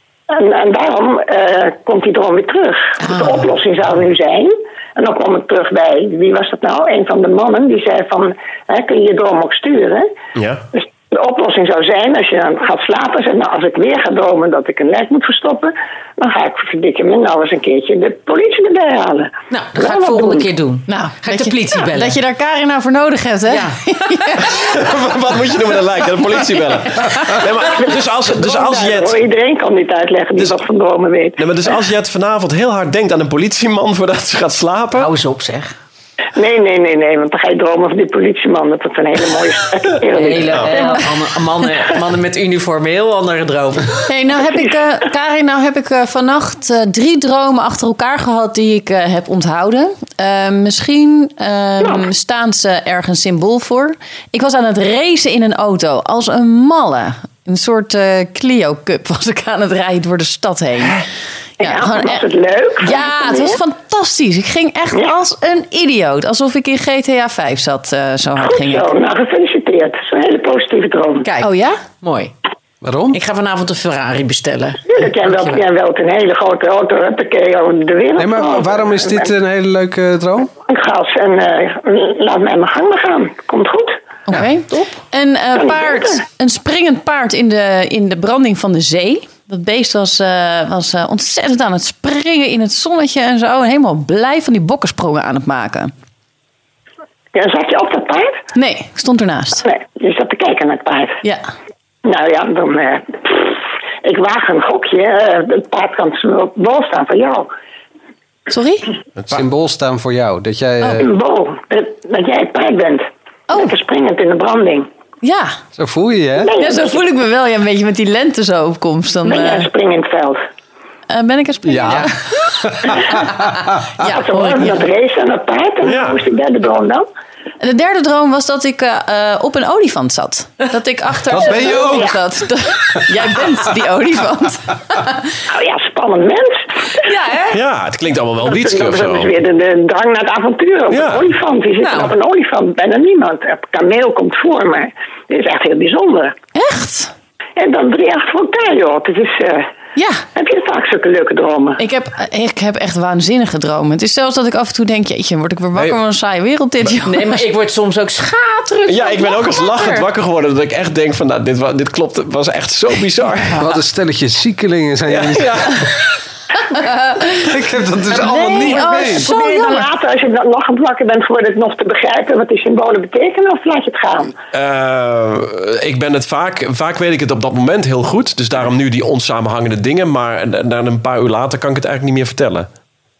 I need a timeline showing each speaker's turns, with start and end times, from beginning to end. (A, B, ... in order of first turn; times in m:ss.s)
0:00.3-0:10.1 A
0:03.0-0:03.4 B
0:10.4-0:10.6 C
0:10.7-0:20.5 A
0:19.5-0:22.2 B
0:20.9-0:24.6 D
0:23.5-0:24.6 B
0:24.5-0:29.2 C
0:27.5-0:31.4 A
0:31.4-0:35.1 C
0:35.0-0:35.7 B
0:36.4-0:41.1 A
0:40.1-0:44.1 B
0:44.1-1:01.0 D
1:01.6-1:02.2 D
1:01.6-1:03.6 A
1:02.8-1:08.9 D
1:08.4-1:11.3 A
1:11.2-1:11.5 B
1:11.4-1:11.8 D
1:12.0-1:12.3 B
1:12.8-1:13.2 E
1:13.1-1:14.9 B
1:14.9-1:19.3 A
1:18.2-1:20.5 E
1:20.6-1:24.0 A
1:24.3-1:35.9 D
1:25.6-1:26.2 A
1:37.3-1:38.4 A
1:38.6-1:39.6 D
1:39.6-1:41.2 A
1:41.2-1:41.5 D
1:42.0-1:47.5 A
1:48.5-1:48.9 D
1:49.2-1:49.4 C
1:49.3-1:51.2 E
1:50.9-1:54.9 A
1:55.2-1:55.6 D
1:55.8-1:56.6 E
1:56.4-1:57.0 A
1:56.6-1:59.7 D
1:59.2-2:00.4 A
2:01.1-2:04.8 D
2:01.6-2:02.1 E
2:02.6-2:03.2 E
2:04.0-2:07.1 A
2:05.8-2:06.2 C
2:07.6-2:15.2 D
2:11.3-2:12.2 E
2:15.5-2:16.9 A
2:17.0-2:17.6 B
2:17.5-2:19.3 C
2:18.5-2:26.4 A
2:20.9-2:21.3 C
2:21.8-2:22.1 B
2:26.6-2:27.1 D
2:27.6-2:29.7 A
2:30.0-2:30.2 D
2:30.4-2:31.8 A
2:31.8-2:37.4 D
2:37.0-2:40.1 B
2:38.9-2:43.6 C
2:43.6-2:45.9 E
2:45.1-2:46.1 C
2:46.7-2:47.4 D
2:47.4-2:49.3 E
2:48.2-2:49.9 D
2:48.6-2:54.4 A
2:54.5-3:02.7 C